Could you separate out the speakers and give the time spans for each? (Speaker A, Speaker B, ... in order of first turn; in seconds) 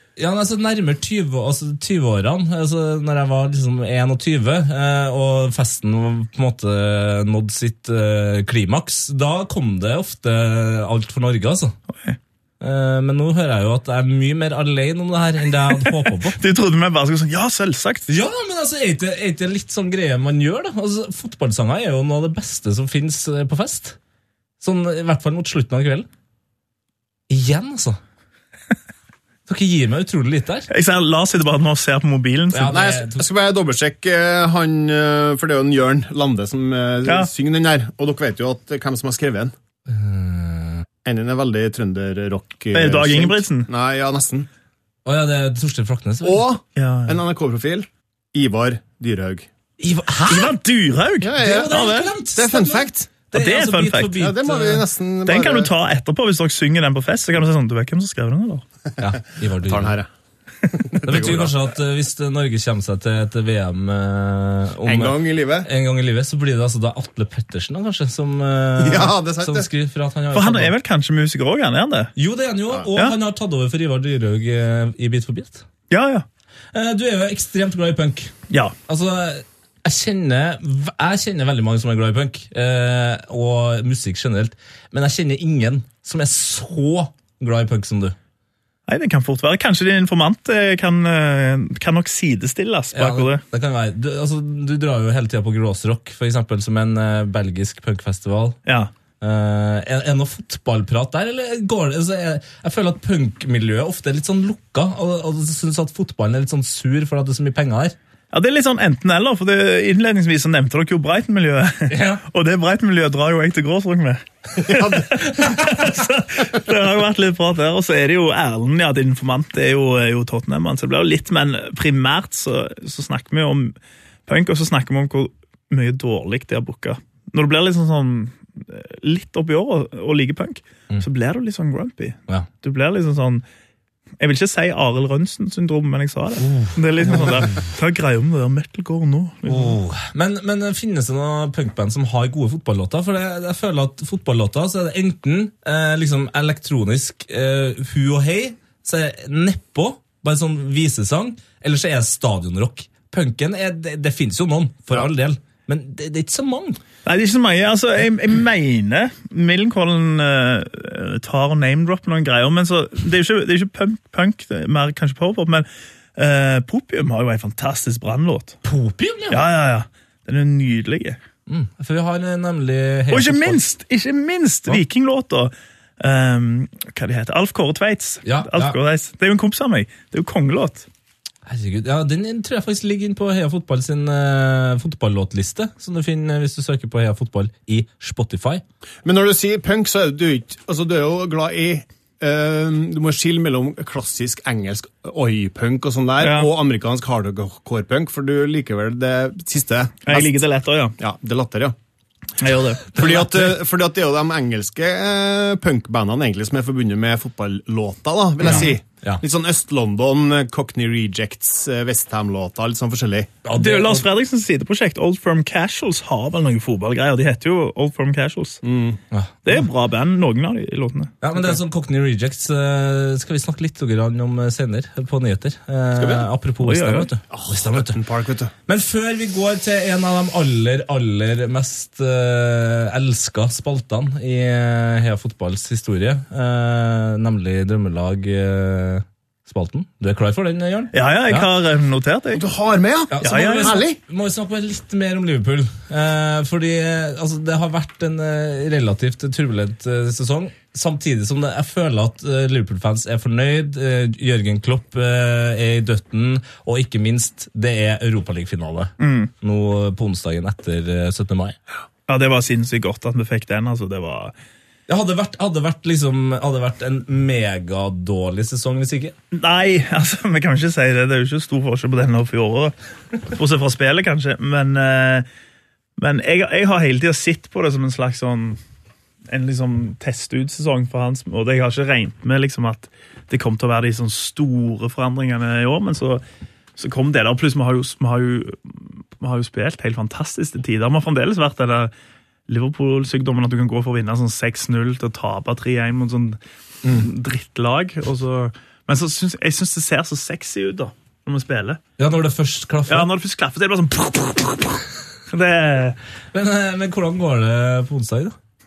Speaker A: 0.2-11.8, 12.6-16.4, 18.1-24.0, 24.6-26.1, 27.3-28.0, 29.5-30.7, 32.5-33.2, 39.9-40.9, 45.0-46.5, 49.8-50.5, 51.4-54.9, 59.0-60.0, 61.0-70.8, 72.2-75.7, 76.7-78.3, 78.9-88.2, 92.9-98.6, 99.2-108.0, 111.9-112.2, 114.8-115.9, 136.4-137.4, 139.5-156.8, 168.7-169.4, 171.5-173.6, 178.2-178.8, 181.5-188.6, 203.0-203.5, 208.4-209.2, 213.4-214.1, 219.1-219.6, 221.2-228.0, 228.7-241.5, 243.1-261.6, 264.9-269.1, 302.0-303.1, 306.3-308.4
Speaker B: 11.9-12.2, 15.7-18.1, 30.7-32.9, 42.7-43.7, 46.8-47.2, 50.2-52.1, 53.3-54.2, 55.2-58.6, 70.3-72.1, 75.9-76.2, 88.9-93.4, 98.7-98.9, 108.3-123.8, 124.3-133.4, 134.2-139.8, 157.1-168.6, 169.3-171.2, 173.1-180.9, 196.2-196.6, 200.1-201.0, 202.4-203.0, 213.5-218.6, 219.4-221.5, 226.6-227.1, 240.9-242.4, 243.2-243.8, 259.0-259.3, 262.1-264.3, 269.3-275.3, 276.0-278.6, 279.3-286.2, 286.8-291.9, 292.5-301.8, 302.9-306.0
Speaker C: 32.7-39.5, 41.0-44.5, 46.2-49.5, 51.2-53.1, 54.1-55.7, 59.6-60.1, 60.7-61.6, 64.8-65.7, 68.8-69.7, 189.0-200.4, 201.0-201.8, 202.9-213.3, 218.6-219.0, 226.0-226.3, 227.3-228.5, 242.3-244.0